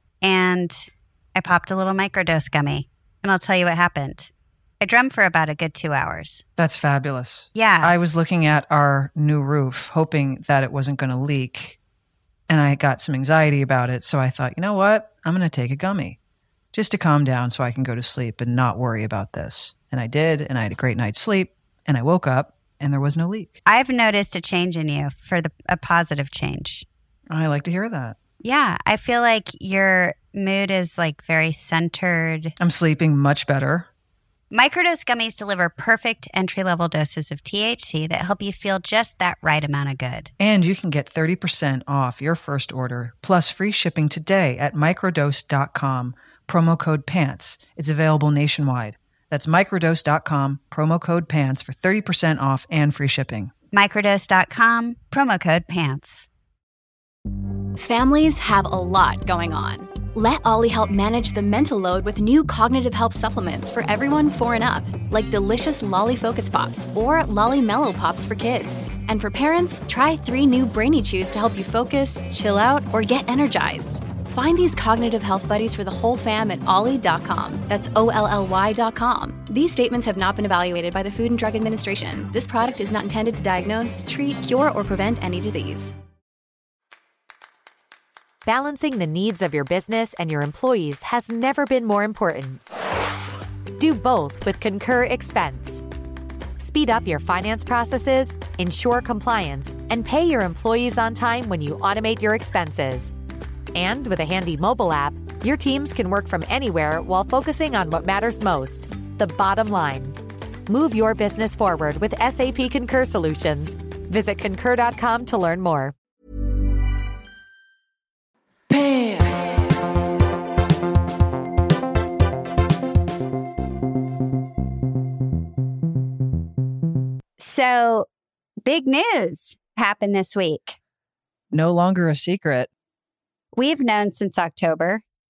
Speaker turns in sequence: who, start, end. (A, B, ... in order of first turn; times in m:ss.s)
0:00.2-0:06.4 A
0:06.6-0:11.8 B
0:07.6-0:07.9 A
0:12.5-0:16.2 B
0:16.7-0:23.6 B
0:23.7-0:26.9 A
0:27.3-0:28.2 B
0:28.4-0:32.6 A
0:32.6-0:33.9 B
0:34.5-0:40.3 A
0:40.4-0:53.5 B
0:53.7-0:56.3 A
0:57.8-1:25.9 C
1:28.4-1:32.6 D
1:33.8-1:35.8 D
1:36.6-1:43.1 D
1:43.7-1:56.0 D
1:58.7-1:59.4 B
2:07.4-2:08.1 A
2:08.6-2:10.8 A
2:11.5-2:12.7 B
2:13.5-2:15.0 A